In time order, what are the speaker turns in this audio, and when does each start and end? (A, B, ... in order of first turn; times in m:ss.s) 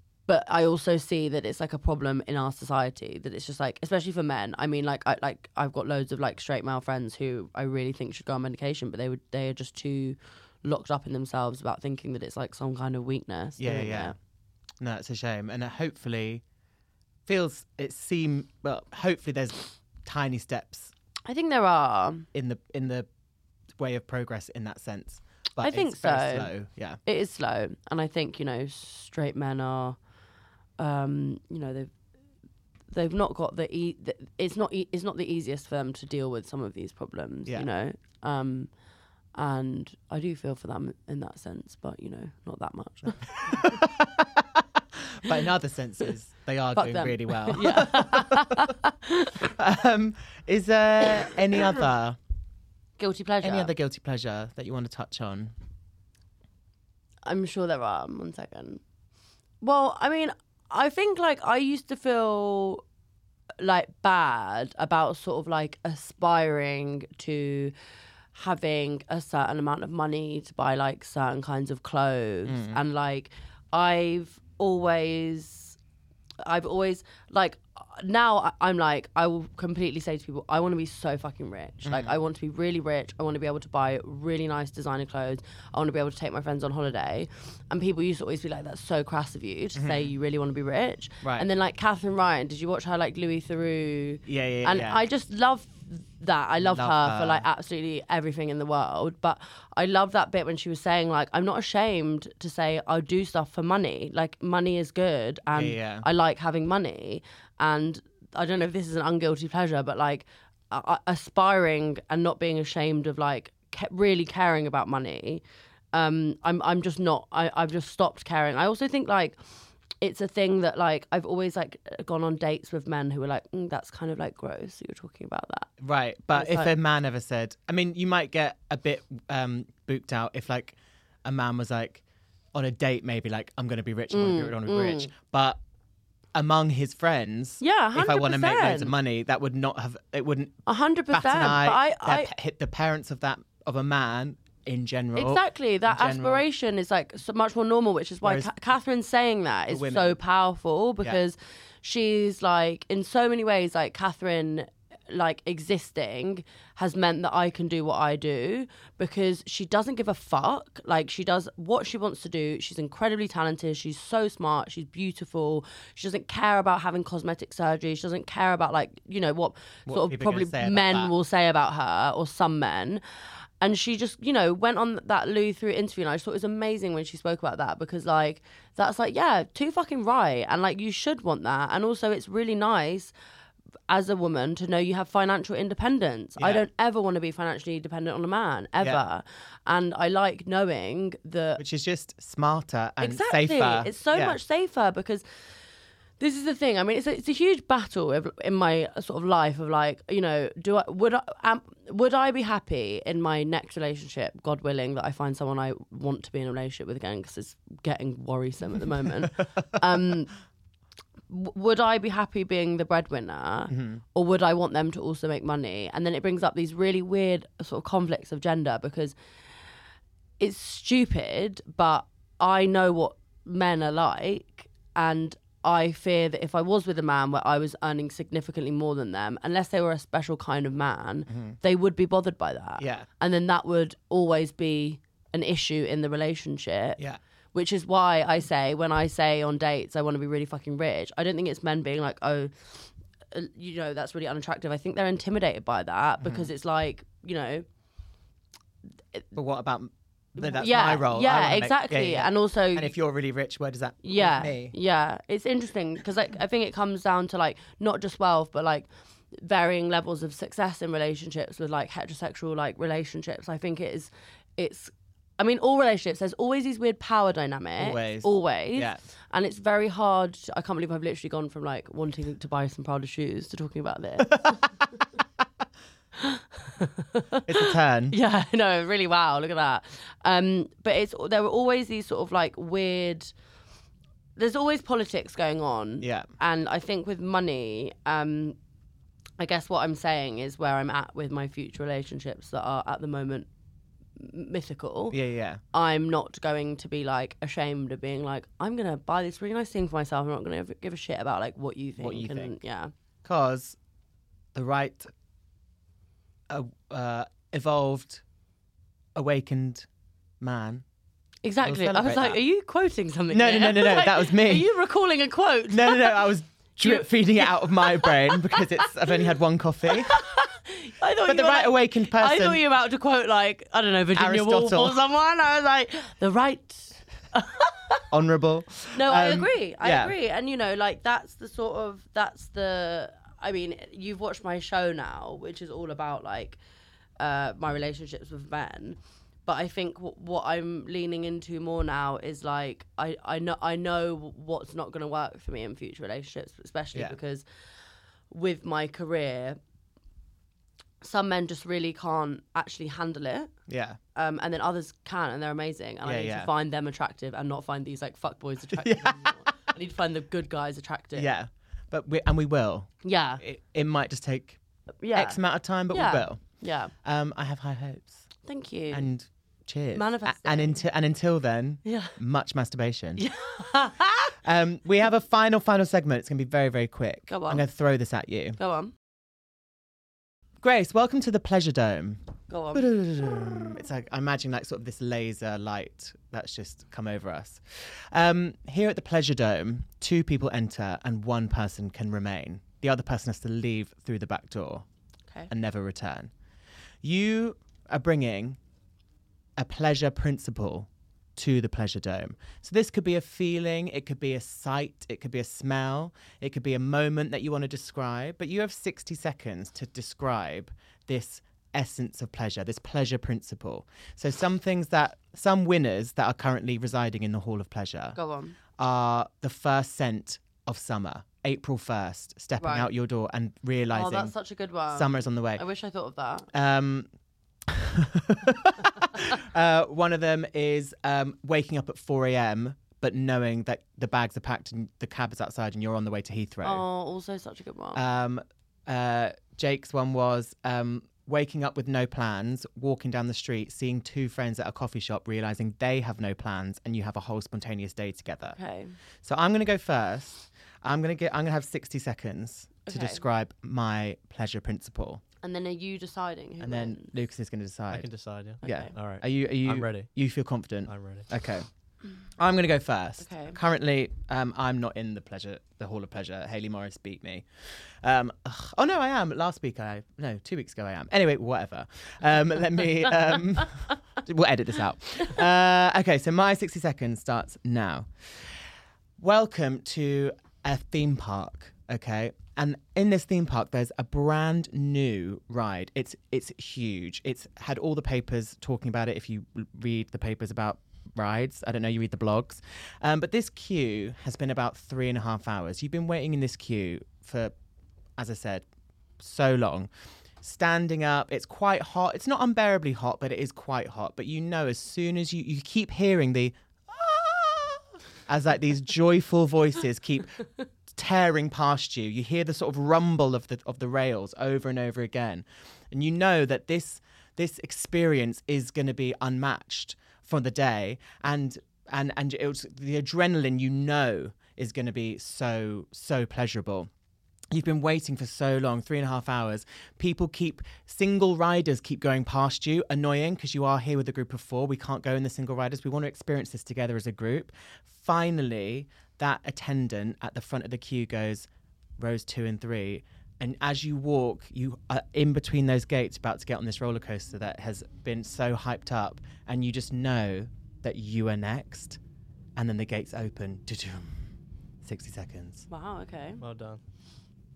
0:00.3-0:14.2 A
0:13.6-0:14.1 B
0:14.8-0:16.4 B
0:17.2-0:20.9 B
0:21.2-0:22.3 A
0:22.3-0:23.1 B
0:23.8-0:27.0 B
0:25.6-0:26.5 A
0:27.0-0:30.0 A
0:30.8-0:31.9 A
0:32.9-0:38.7 A
0:39.3-0:43.8 A
0:43.4-0:48.7 B
0:46.7-0:49.4 A
0:49.4-0:52.2 B
0:51.3-0:51.6 A
0:53.0-0:53.7 A
0:53.4-0:55.5 B
0:57.2-0:58.8 A
0:59.6-1:02.8 A
1:03.6-1:07.7 A
1:08.3-1:15.8 A
1:12.5-1:12.8 B
1:16.4-1:59.4 A
1:21.8-1:22.1 B
1:29.7-1:30.1 B
1:31.2-1:31.5 B
1:34.2-1:35.0 B
1:36.6-1:37.4 B
1:45.5-1:46.0 B
2:00.0-2:05.7 A
2:05.8-2:12.0 B
2:06.3-2:06.7 A
2:12.5-2:15.6 B
2:14.1-2:15.1 A
2:16.3-2:26.4 B
2:17.6-2:18.9 A
2:20.6-2:22.3 A
2:25.1-2:53.0 A
2:28.2-2:28.5 B
2:29.7-2:30.2 B
2:49.8-2:51.1 B
2:53.6-3:03.1 A
3:03.9-3:11.6 A
3:06.4-3:06.6 B
3:11.6-3:14.4 B
3:13.0-3:15.2 A
3:16.2-3:30.3 A
3:31.3-3:39.1 A
3:33.7-3:34.0 B
3:40.4-3:57.0 A
3:51.3-3:51.6 B
3:52.8-3:53.1 B
3:57.5-4:07.6 A
4:06.2-4:06.5 B
4:09.3-4:14.7 B
4:10.4-4:12.9 A
4:14.0-4:34.7 A
4:27.8-4:29.0 B
4:36.2-4:43.3 A
4:37.4-4:38.2 B
4:44.4-4:48.6 A
4:46.0-4:46.3 B
4:49.4-4:53.5 A
4:54.2-4:55.2 A
4:55.1-4:55.6 B
4:55.7-5:02.9 A
5:02.0-5:02.6 B
5:03.2-5:03.8 B
5:04.5-5:05.1 B
5:06.5-5:08.2 B
5:09.1-5:09.9 B
5:10.4-5:10.8 B
5:11.4-5:16.3 A
5:11.6-5:12.4 B
5:13.3-5:14.7 B
5:15.7-5:20.2 B
5:16.8-5:19.2 A
5:19.9-5:28.0 A
5:21.2-5:22.6 B
5:24.1-5:25.0 B
5:28.1-5:30.1 B
5:28.9-5:36.6 A
5:37.2-5:47.4 A
5:48.3-5:49.6 A
5:51.0-5:53.5 A
5:53.7-5:54.0 B
5:54.1-6:01.3 A
5:56.0-5:56.5 B
5:58.7-5:59.4 B
6:01.1-6:02.9 B
6:03.0-6:03.4 A
6:03.4-6:04.6 B
6:05.0-6:05.4 A
6:05.1-6:06.4 B
6:05.9-6:06.9 A
6:07.0-6:08.3 B
6:08.4-6:09.0 A
6:08.9-6:13.2 B
6:09.9-6:10.8 A
6:11.8-6:12.2 A
6:13.2-6:14.3 A
6:14.4-6:18.6 B
6:17.3-6:17.6 A
6:18.6-6:18.9 A
6:20.6-6:22.2 B
6:22.5-6:22.9 A
6:22.7-6:34.8 B
6:35.5-6:36.3 B
6:37.0-6:38.6 B
6:39.6-6:58.2 B
6:58.2-6:58.6 A
6:58.8-7:04.3 B
7:02.6-7:02.9 A
7:03.9-7:06.5 A
7:04.9-7:05.6 B
7:06.5-7:07.1 B
7:07.7-7:16.8 B
7:16.6-7:18.0 A
7:17.9-7:28.6 B
7:28.5-7:28.9 A
7:29.2-7:35.2 B
7:32.8-7:33.2 A
7:35.4-7:37.1 A
7:36.6-7:38.1 B
7:37.9-7:40.1 C
7:38.6-7:38.9 A
7:38.6-7:41.7 B
7:40.9-7:41.3 C
7:42.4-7:47.4 B
7:43.2-7:43.6 A
7:48.0-7:58.5 B
7:59.2-8:17.5 B
8:18.2-8:18.6 B
8:19.2-8:19.9 B
8:20.4-8:46.9 B
8:47.5-9:12.0 B
9:12.6-9:14.2 B
9:14.8-9:15.7 B
9:15.7-9:16.4 A
9:16.4-9:16.8 C